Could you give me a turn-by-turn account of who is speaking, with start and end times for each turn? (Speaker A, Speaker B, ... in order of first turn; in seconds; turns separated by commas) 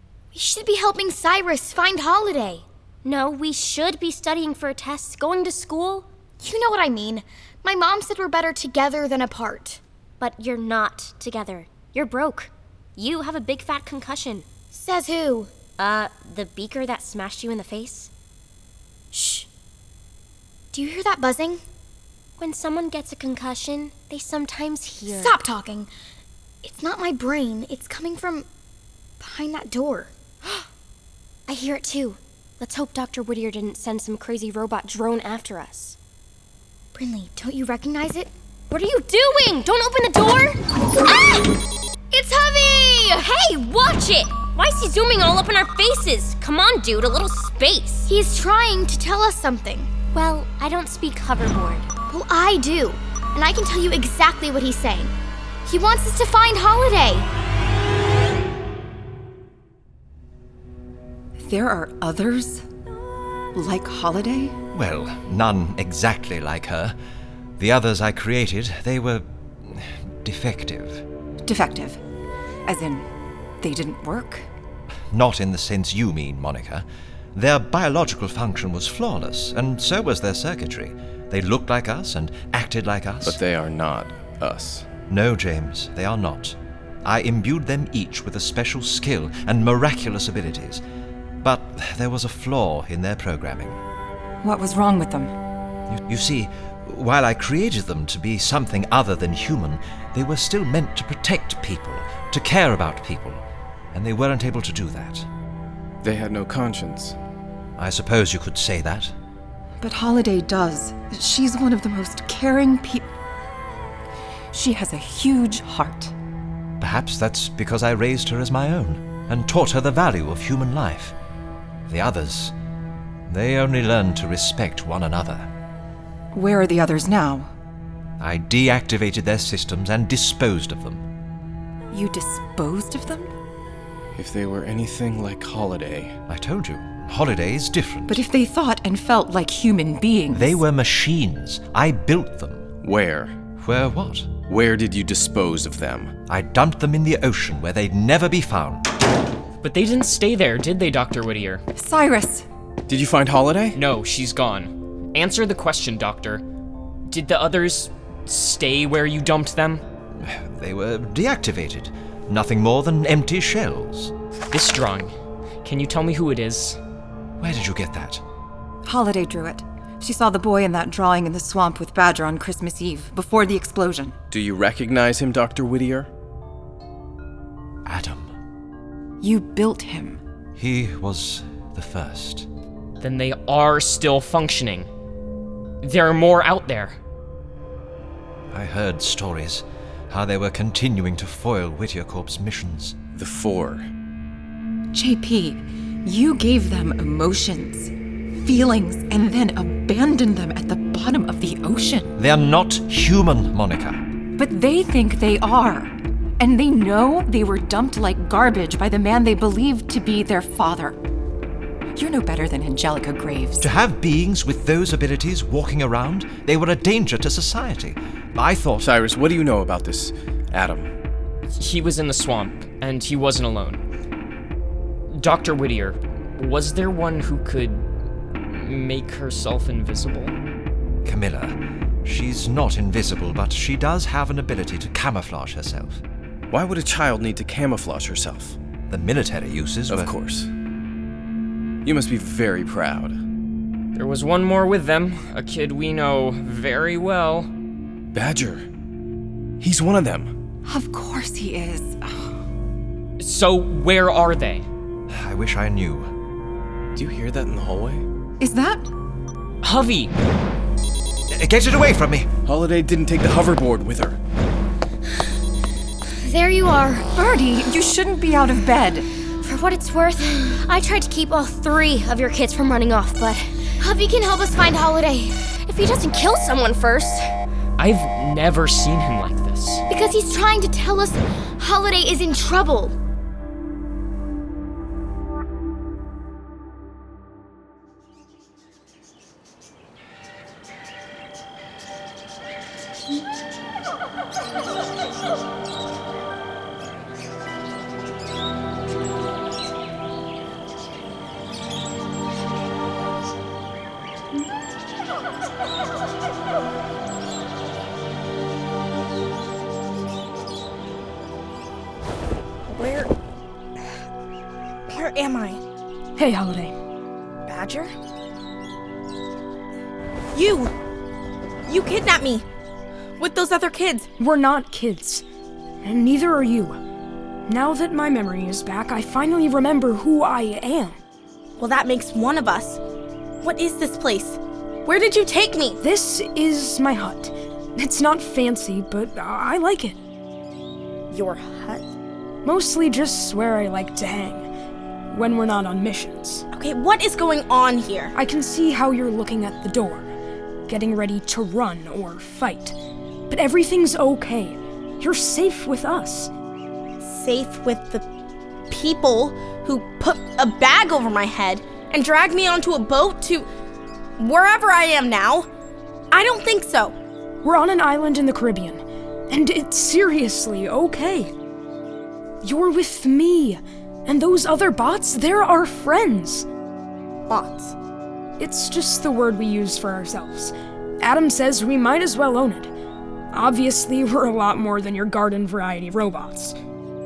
Speaker A: 0.3-2.6, Speaker B: 3.0-6.1, Speaker A: 6.4-9.8, Speaker B: 10.2-14.5, Speaker A: 14.7-15.5, Speaker B: 15.8-18.1, Speaker A: 19.1-19.5, Speaker A: 20.7-21.6, Speaker B: 22.4-25.4, Speaker A: 25.0-25.9, Speaker A: 26.6-28.5, Speaker A: 29.2-30.1, Speaker B: 31.5-36.0, Speaker A: 36.9-38.3, Speaker B: 38.7-40.6, Speaker A: 42.1-43.2, Speaker B: 43.1-48.0, Speaker A: 48.0-50.0, Speaker B: 50.1-51.9, Speaker A: 52.1-55.1, Speaker A: 55.6-57.3, Speaker C: 61.4-62.6, Speaker C: 63.5-64.6, Speaker D: 64.7-66.9, Speaker D: 67.6-71.0, Speaker C: 71.4-72.0, Speaker C: 72.7-73.0, Speaker C: 73.6-74.5, Speaker D: 75.1-83.4, Speaker E: 83.2-84.9, Speaker D: 85.1-90.8, Speaker D: 91.4-93.8, Speaker C: 94.4-95.3, Speaker D: 95.9-103.4, Speaker D: 103.9-105.2, Speaker E: 106.0-107.2, Speaker D: 107.8-109.1, Speaker C: 109.8-113.1, Speaker C: 114.5-116.1, Speaker D: 116.8-121.1, Speaker D: 121.9-122.5, Speaker D: 123.3-125.5, Speaker C: 126.3-127.5, Speaker D: 128.2-131.0, Speaker C: 131.9-133.3, Speaker E: 134.2-136.2, Speaker D: 136.3-138.2, Speaker C: 138.1-140.6, Speaker D: 140.3-142.7, Speaker E: 142.8-143.3, Speaker D: 143.6-144.3, Speaker E: 144.5-146.1, Speaker D: 146.3-148.8, Speaker F: 149.6-151.6, Speaker C: 151.7-152.4, Speaker E: 152.9-153.8, Speaker F: 154.0-154.5, Speaker G: 154.1-156.4, Speaker F: 155.6-156.3, Speaker F: 157.1-159.8, Speaker G: 157.7-158.4, Speaker D: 160.2-164.1, Speaker F: 164.5-165.1, Speaker F: 165.6-166.8, Speaker D: 167.4-168.2, Speaker C: 168.8-174.1, Speaker E: 174.3-176.1, Speaker D: 177.8-178.3, Speaker C: 179.2-180.2, Speaker D: 180.6-182.5, Speaker F: 183.0-184.9, Speaker G: 184.4-184.8, Speaker F: 185.8-186.9, Speaker D: 188.5-192.9, Speaker E: 193.1-193.9, Speaker C: 194.9-202.1, Speaker D: 202.2-204.0, Speaker C: 204.4-211.0, Speaker C: 211.9-213.7, Speaker D: 213.6-218.9, Speaker E: 218.8-220.9, Speaker F: 221.6-222.4, Speaker G: 222.1-223.0, Speaker F: 223.0-223.8, Speaker F: 225.2-227.7, Speaker G: 226.4-227.7, Speaker F: 228.6-230.2, Speaker G: 229.0-229.4, Speaker D: 231.0-236.0, Speaker E: 236.5-238.6, Speaker D: 238.9-240.1, Speaker E: 239.9-240.5, Speaker E: 241.8-243.2, Speaker F: 243.9-247.5, Speaker G: 245.1-246.2, Speaker E: 248.1-248.6, Speaker E: 249.6-250.3, Speaker C: 250.6-252.3, Speaker F: 253.2-254.6, Speaker D: 255.1-256.1, Speaker E: 256.9-258.0, Speaker C: 258.4-258.9, Speaker F: 259.7-260.1, Speaker D: 261.3-262.3, Speaker E: 262.4-264.2, Speaker A: 266.2-267.1, Speaker C: 267.1-269.1, Speaker B: 269.4-273.5, Speaker A: 273.8-275.4, Speaker B: 275.5-277.3, Speaker F: 277.8-279.4, Speaker G: 279.4-279.7, Speaker A: 279.9-282.9, Speaker H: 312.7-313.1, Speaker H: 314.9-315.6, Speaker G: 316.2-316.7, Speaker H: 317.5-317.9, Speaker H: 320.3-320.7, Speaker H: 321.7-322.4, Speaker H: 323.2-324.1, Speaker G: 324.2-325.2, Speaker G: 325.8-326.8, Speaker G: 327.5-330.9, Speaker H: 331.6-332.8, Speaker H: 333.4-335.8, Speaker G: 335.8-339.9, Speaker H: 341.1-341.9, Speaker G: 342.4-344.5, Speaker G: 345.1-346.4, Speaker H: 346.5-348.1, Speaker G: 348.1-350.1, Speaker G: 350.7-352.8, Speaker G: 353.3-356.3, Speaker H: 357.0-358.1, Speaker H: 358.7-363.5, Speaker H: 364.2-365.5, Speaker H: 366.1-366.9, Speaker G: 367.4-371.3, Speaker G: 372.4-376.4, Speaker H: 377.3-377.7, Speaker G: 378.4-382.7, Speaker G: 383.3-386.6